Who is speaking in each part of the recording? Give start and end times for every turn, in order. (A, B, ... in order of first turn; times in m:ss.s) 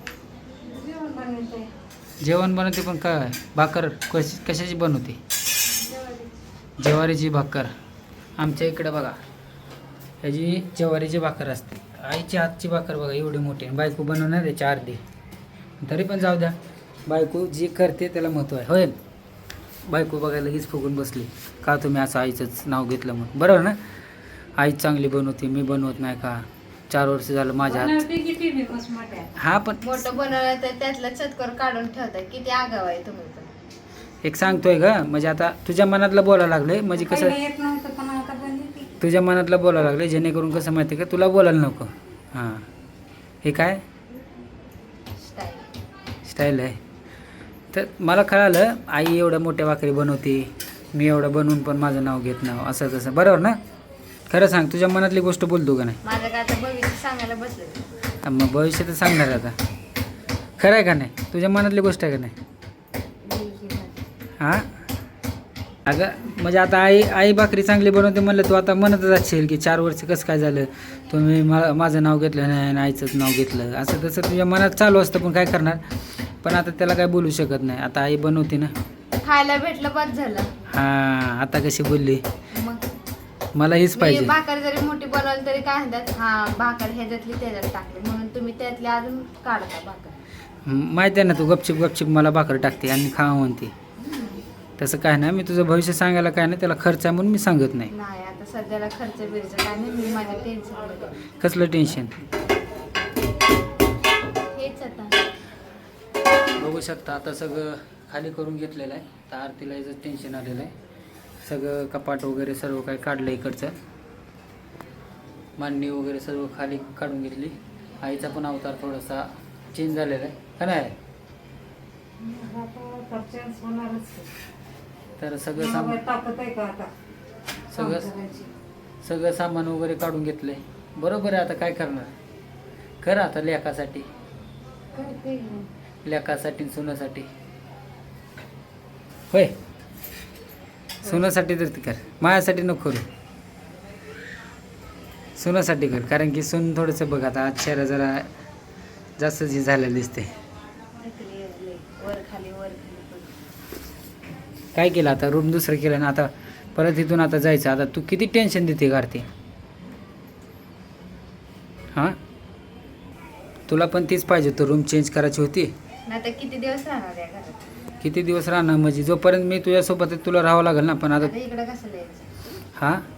0:00.6-0:01.7 A
0:02.2-0:05.2 B
0:05.8-0:06.4 A
0:06.8-0:07.7 B
0:08.4-0:09.2 B
0:10.2-0:15.0 B
0:15.8-0:19.0 B
0:19.9-0:23.8 B
0:24.6-0:28.0 B
0:27.6-0:29.3 A
0:29.4-0:29.8 B
0:29.8-0:33.5 C
0:34.2-0:37.4 B
0:37.0-0:39.0 A
0:39.0-0:42.7 B
0:43.4-0:43.8 B
0:45.2-0:45.7 C
0:46.2-0:46.8 B
0:47.7-0:53.6 B
0:54.3-0:56.0 B
0:56.0-0:57.8 C
0:58.2-0:59.6 B
1:00.6-1:02.3 B
1:03.2-1:04.0 C
1:04.4-1:04.6 B
1:05.9-1:18.7 B
1:19.2-1:20.7 C
1:20.7-1:22.2 B
1:22.5-1:22.8 C
1:23.5-1:24.3 B
1:24.0-1:30.1 C
1:30.6-1:33.7 B
1:34.0-1:34.4 C
1:34.8-1:37.9 B
1:37.9-1:41.2 C
1:41.4-1:42.2 B
1:44.5-1:45.2 C
1:46.6-1:50.7 B
1:51.4-1:53.8 B
1:55.6-2:01.0 B
2:02.2-2:04.3 A
2:05.2-2:06.0 B
2:05.6-2:06.9 A
2:07.7-2:08.1 B
2:07.7-2:08.5 A
2:09.0-2:12.1 B
2:13.0-2:14.1 B
2:14.9-2:15.7 A
2:16.0-2:17.3 B
2:21.0-2:23.0 B
2:25.4-2:28.3 B
2:29.2-2:30.3 B
2:31.0-2:33.3 C
2:34.8-2:39.3 B
2:43.7-2:45.7 B
2:46.0-2:47.7 C
2:48.0-2:51.3 B
2:51.2-2:52.3 C
2:52.8-2:53.0 B